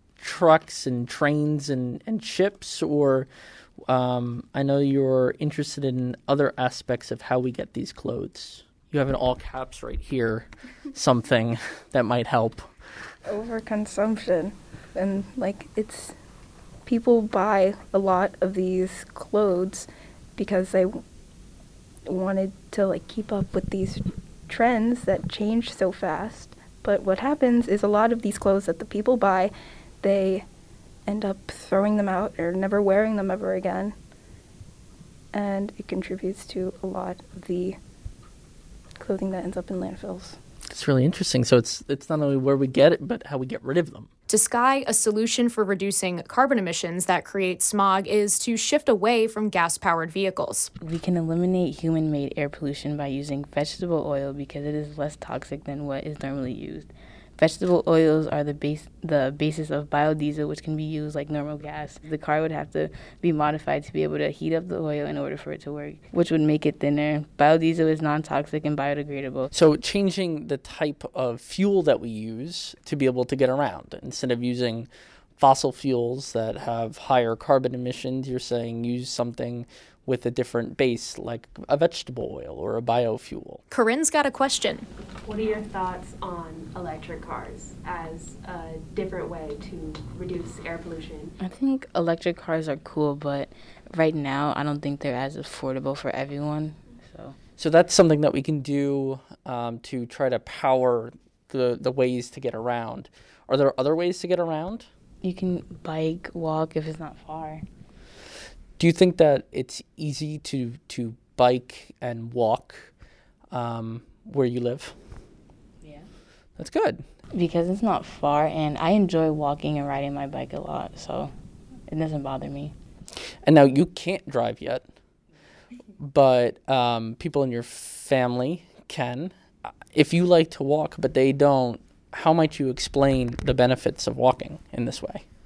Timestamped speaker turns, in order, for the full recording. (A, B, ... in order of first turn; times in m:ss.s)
0:00.2-0:03.3 A
0:03.9-0:12.7 A
0:13.3-0:16.2 B
0:16.9-0:21.0 B
0:22.1-0:30.5 B
0:31.1-0:34.0 B
0:35.3-0:37.8 B
0:39.0-0:40.4 B
0:40.7-0:44.1 A
0:44.3-0:50.7 C
0:50.8-1:09.5 D
1:09.5-1:23.6 A
1:23.7-1:24.9 C
1:25.2-1:31.3 E
1:31.4-1:37.4 D
1:37.6-1:44.9 A
1:45.2-1:47.6 D
1:48.8-1:52.9 A
1:53.5-1:54.9 A
1:56.6-1:57.0 A
1:57.3-2:01.3 D
2:01.9-2:02.7 D
2:03.4-2:04.8 A
2:06.0-2:09.3 A
2:09.9-2:15.2 A